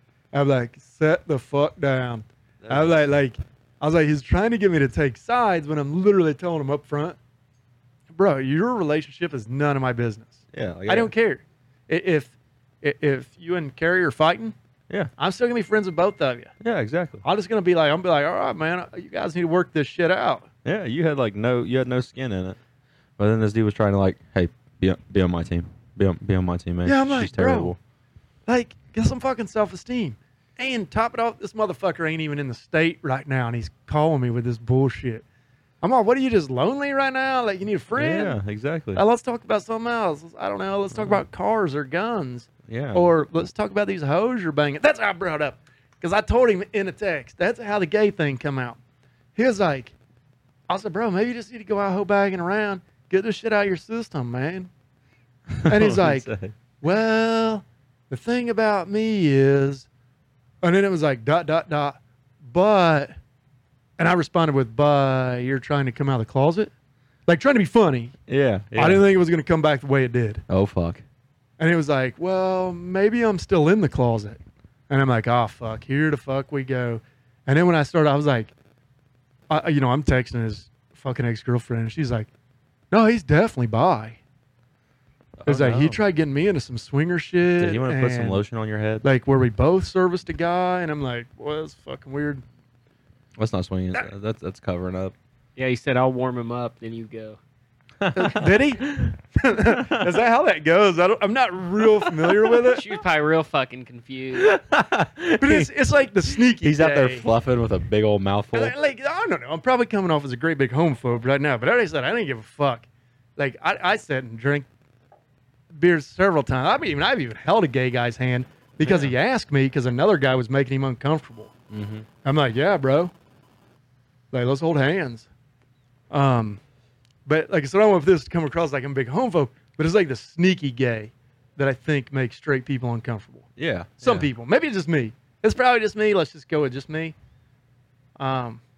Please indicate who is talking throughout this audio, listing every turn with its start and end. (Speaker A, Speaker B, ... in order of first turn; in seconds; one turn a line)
Speaker A: 0.3-7.2
Speaker B: 2.6-3.0
Speaker A: 8.1-14.6
Speaker B: 10.5-11.1
Speaker A: 15.2-16.5
Speaker B: 16.6-17.2
Speaker A: 17.2-20.5
Speaker B: 20.6-22.6
Speaker B: 23.2-27.8
Speaker A: 26.8-27.8
Speaker A: 28.5-35.2
Speaker A: 35.8-38.4
Speaker B: 38.0-39.0
Speaker A: 39.0-48.8
Speaker B: 41.0-41.2
Speaker B: 42.7-43.1
Speaker A: 49.4-50.0
Speaker A: 50.7-54.7
Speaker B: 55.5-56.5
Speaker A: 55.6-59.9
Speaker A: 60.6-63.1
Speaker A: 64.0-66.7
Speaker A: 67.3-68.2
Speaker B: 68.3-69.0
Speaker A: 68.7-70.4
Speaker B: 70.5-71.0
Speaker A: 71.6-78.5
Speaker A: 79.5-82.3
Speaker A: 82.9-84.2
Speaker B: 85.4-86.0
Speaker A: 85.5-88.4
Speaker B: 87.6-89.0
Speaker A: 89.0-92.4
Speaker B: 93.4-95.1
Speaker C: 95.6-97.4
Speaker B: 98.0-100.2
Speaker A: 98.1-102.8
Speaker B: 102.0-102.7
Speaker C: 102.7-104.6
Speaker B: 104.4-105.7
Speaker A: 105.4-107.3
Speaker B: 106.3-108.7
Speaker A: 108.5-114.7
Speaker A: 115.7-121.5
Speaker B: 118.8-119.1
Speaker B: 121.7-122.1
Speaker A: 122.2-123.1
Speaker A: 124.3-125.3
Speaker A: 126.1-126.6
Speaker A: 127.3-133.5
Speaker B: 133.6-134.3
Speaker A: 134.0-137.2
Speaker A: 138.2-138.6